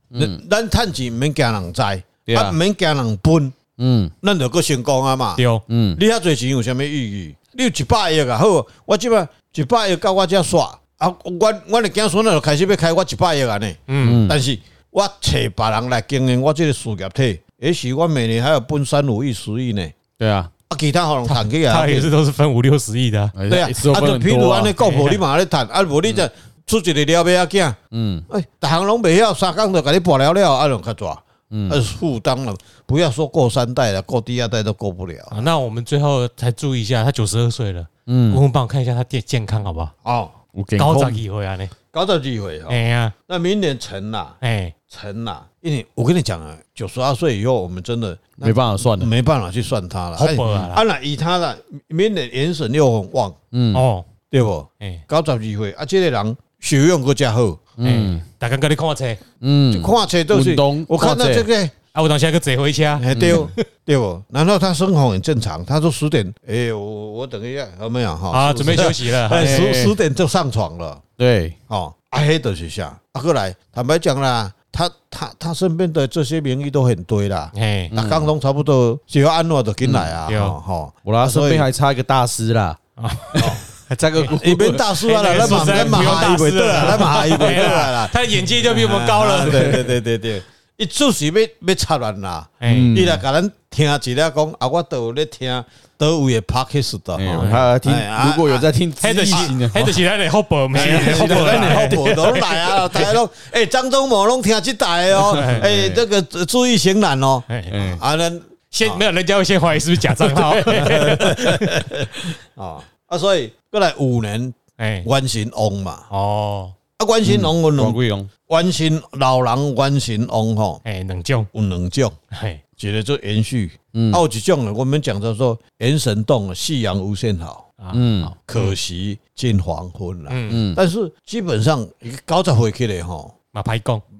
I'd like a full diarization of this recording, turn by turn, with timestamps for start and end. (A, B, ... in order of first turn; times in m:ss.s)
0:00.1-0:00.4 A
0:00.1-0:03.6 B
0:02.3-0:02.6 A
0:03.8-0:04.1 A
0:04.2-0:05.4 B
0:05.4-0:05.6 C
0:05.7-0:06.0 A
0:05.9-0:20.0 B
0:13.9-0:14.2 C
0:14.0-0:14.4 A
0:20.2-0:20.5 A
0:20.7-0:22.1 B
0:21.3-0:23.3 C
0:23.3-0:24.7 A
0:23.5-0:27.8 B
0:24.8-0:25.2 C
0:27.9-0:28.3 A
0:28.3-0:35.5 B
0:31.5-0:31.8 A
0:35.3-0:39.9 C
0:38.1-0:38.4 A
0:40.0-0:40.3 B
0:40.5-0:41.2 A
0:40.8-0:41.7 C
0:41.9-0:44.4 B
0:42.7-0:43.1 C
0:44.4-0:44.7 C
0:44.9-0:53.4 B
0:48.4-0:49.1 A
0:50.2-0:50.8 C
0:53.5-0:53.8 A
0:53.7-0:54.1 C
0:54.3-0:57.6 B
0:57.8-0:58.2 A
0:57.8-0:59.2 C
0:59.4-1:01.5 A
0:59.7-1:01.7 B
1:01.9-1:03.6 C
1:03.0-1:11.0 B
1:03.1-1:03.5 A
1:08.3-1:09.7 C
1:09.3-1:10.0 A
1:11.2-1:11.5 A
1:11.7-1:21.7 B
1:17.5-1:17.9 C
1:17.9-1:18.3 A
1:19.8-1:20.1 A
1:20.3-1:20.6 C
1:21.0-1:22.8 A
1:23.0-1:24.3 C
1:23.3-1:27.8 A
1:23.4-1:23.6 B
1:24.3-1:38.6 B
1:25.0-1:29.9 C
1:29.4-1:29.9 A
1:32.6-1:32.9 C
1:32.7-1:33.2 A
1:37.2-1:40.0 A
1:37.3-1:37.7 C
1:39.0-1:43.1 C
1:40.7-1:49.0 B
1:40.8-1:41.8 A
1:45.3-1:45.7 C
1:45.3-1:46.0 A
1:47.5-1:47.7 C
1:47.7-1:48.0 A
1:48.7-1:51.9 C
1:50.6-1:56.1 B
1:50.8-1:51.0 A
1:54.8-1:55.1 C
1:56.1-1:56.7 C
1:57.0-2:00.8 B
1:57.2-1:58.3 A
2:00.8-2:01.5 C
2:01.5-2:02.1 B
2:02.3-2:02.6 C
2:02.8-2:07.6 B
2:03.9-2:04.2 A
2:07.8-2:08.8 C
2:07.9-2:08.3 A
2:08.4-2:13.3 B
2:10.3-2:10.6 C
2:10.5-2:10.8 A
2:13.5-2:14.0 C